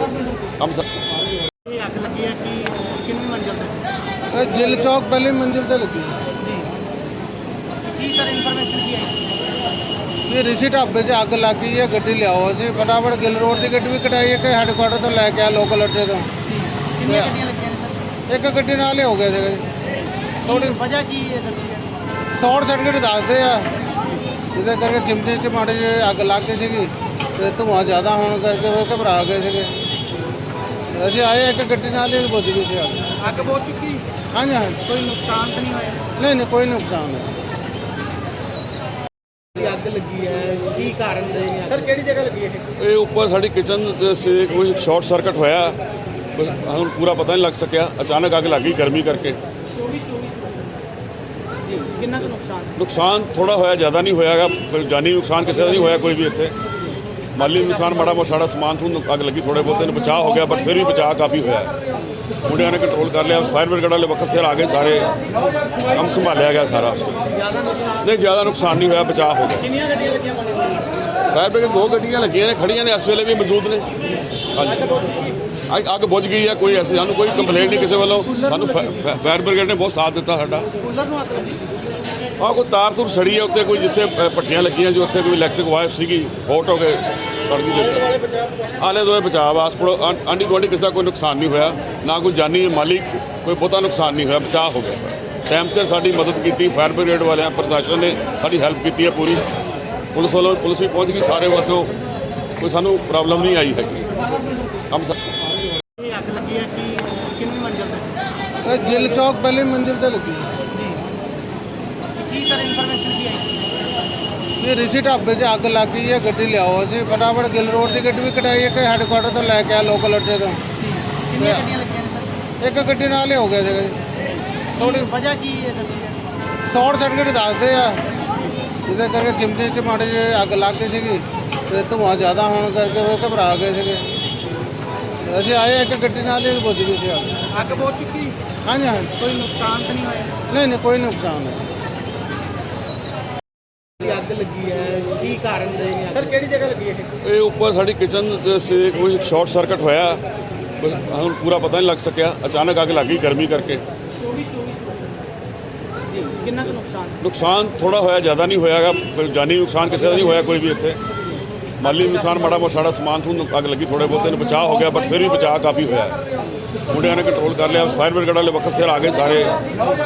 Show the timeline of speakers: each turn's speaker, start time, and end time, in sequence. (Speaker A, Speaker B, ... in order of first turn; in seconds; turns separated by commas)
Speaker A: 0.6-0.8, Speaker B: 1.6-3.7, Speaker C: 4.3-6.3, Speaker B: 7.9-9.1, Speaker C: 10.2-16.3, Speaker B: 16.9-17.9, Speaker C: 17.0-17.4, Speaker C: 18.3-19.7, Speaker B: 20.4-21.9, Speaker C: 22.3-23.7, Speaker C: 24.5-29.8, Speaker C: 30.9-33.0, Speaker B: 33.2-34.0, Speaker C: 34.3-34.8, Speaker B: 34.8-36.0, Speaker C: 36.1-37.3, Speaker B: 39.5-42.6, Speaker A: 42.8-45.8, Speaker A: 46.3-49.4, Speaker B: 49.7-50.7, Speaker B: 51.7-52.7, Speaker A: 52.8-56.5, Speaker A: 57.4-61.8, Speaker A: 62.4-65.2, Speaker A: 65.9-67.3, Speaker A: 68.0-69.9, Speaker A: 71.3-73.8, Speaker A: 74.5-75.1, Speaker A: 75.7-80.9, Speaker A: 82.4-99.4, Speaker A: 100.1-101.9, Speaker A: 102.6-104.1, Speaker A: 104.9-105.2, Speaker B: 106.0-108.0, Speaker C: 108.6-110.5, Speaker B: 112.2-113.5, Speaker C: 114.6-120.8, Speaker B: 121.3-122.3, Speaker C: 121.4-121.7, Speaker C: 122.6-124.0, Speaker B: 124.8-126.2, Speaker C: 126.6-128.0, Speaker C: 128.8-134.1, Speaker C: 135.2-137.4, Speaker B: 137.5-138.4, Speaker C: 138.6-139.1, Speaker B: 139.1-140.3, Speaker C: 140.5-141.6, Speaker B: 144.0-147.1, Speaker A: 147.2-150.2, Speaker A: 150.8-153.8, Speaker B: 154.2-155.2, Speaker B: 156.1-157.2, Speaker A: 157.2-161.0, Speaker A: 161.8-166.2, Speaker A: 166.9-169.6